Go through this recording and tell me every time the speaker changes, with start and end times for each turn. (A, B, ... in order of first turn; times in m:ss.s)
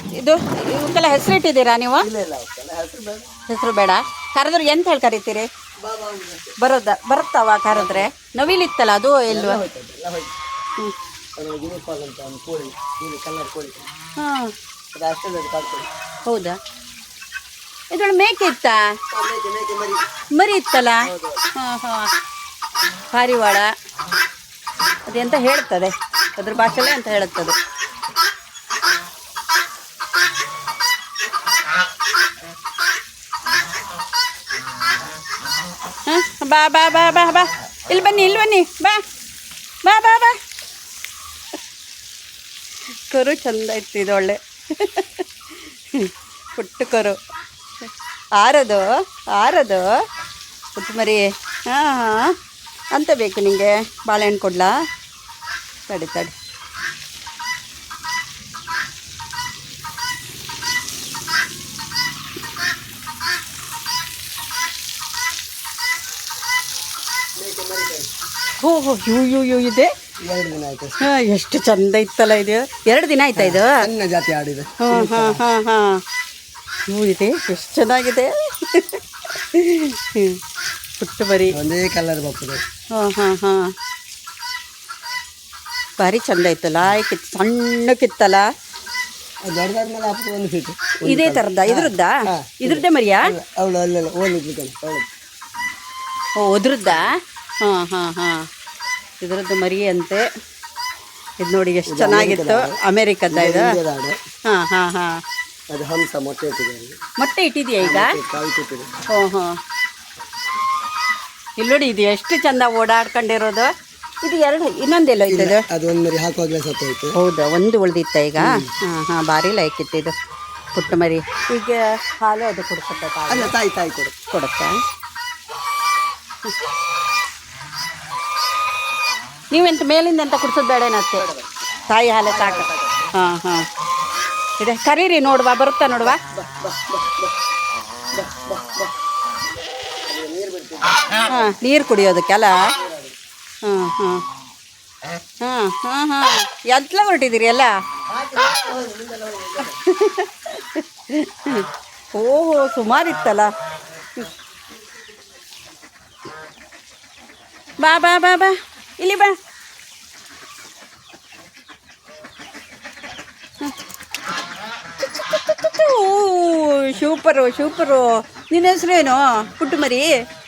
0:00.1-0:02.1 A
0:02.0-0:03.3 B
0:03.5-0:05.5 A
0:05.8-0:06.5 B
0:06.6-0:09.6 A
0:07.7-0:08.1 B
0:09.3-0:10.3 B
0:11.4-0:13.9 B
0:14.2-0:14.5 A
0:14.9-0:15.9 B
0:16.3-0:16.6 A
0:17.9-0:19.0 A
0:19.1-0:20.0 B
0:20.3-0:21.0 A
0:21.0-0:21.4 B
0:21.6-0:22.1 A
0:23.1-0:23.7 A
0:25.1-0:27.5 A
0:36.0-0:39.0 A
0:39.8-0:40.4 A
0:43.1-0:47.2 A
0:47.8-0:50.0 A
0:50.7-0:52.3 A
0:52.9-0:54.8 A
0:55.9-0:56.4 A
1:07.4-1:08.1 B
1:08.6-1:09.9 A
1:10.2-1:11.0 B
1:11.0-1:13.9 A
1:13.4-1:15.4 B
1:14.8-1:16.0 A
1:16.9-1:20.4 A
1:21.0-1:21.6 A
1:21.5-1:22.6 B
1:22.9-1:23.7 A
1:26.0-1:28.5 A
1:29.4-1:35.0 B
1:31.0-1:33.3 A
1:36.4-1:38.5 A
1:39.2-1:40.2 A
1:41.4-1:43.8 A
1:41.9-1:42.8 B
1:43.3-1:44.2 B
1:44.4-1:45.2 A
1:45.7-1:47.0 B
1:47.2-1:48.2 A
1:47.8-1:48.9 B
1:49.1-1:49.6 A
1:51.6-1:53.7 A
1:54.2-1:55.6 A
1:55.3-1:57.2 B
1:57.1-2:00.1 A
1:58.4-1:58.7 B
2:00.7-2:03.5 A
2:03.3-2:04.1 B
2:04.3-2:04.8 A
2:09.5-2:11.2 A
2:11.2-2:11.5 B
2:11.9-2:13.6 A
2:12.2-2:13.1 B
2:14.6-2:16.2 A
2:16.0-2:17.3 B
2:18.1-2:18.9 B
2:20.1-2:21.5 B
2:21.3-2:22.7 A
2:22.5-2:23.1 B
2:23.6-2:24.2 A
2:25.4-2:27.7 A
2:28.1-2:29.8 B
2:29.8-2:33.5 A
2:37.8-2:39.4 A
2:45.0-2:50.2 A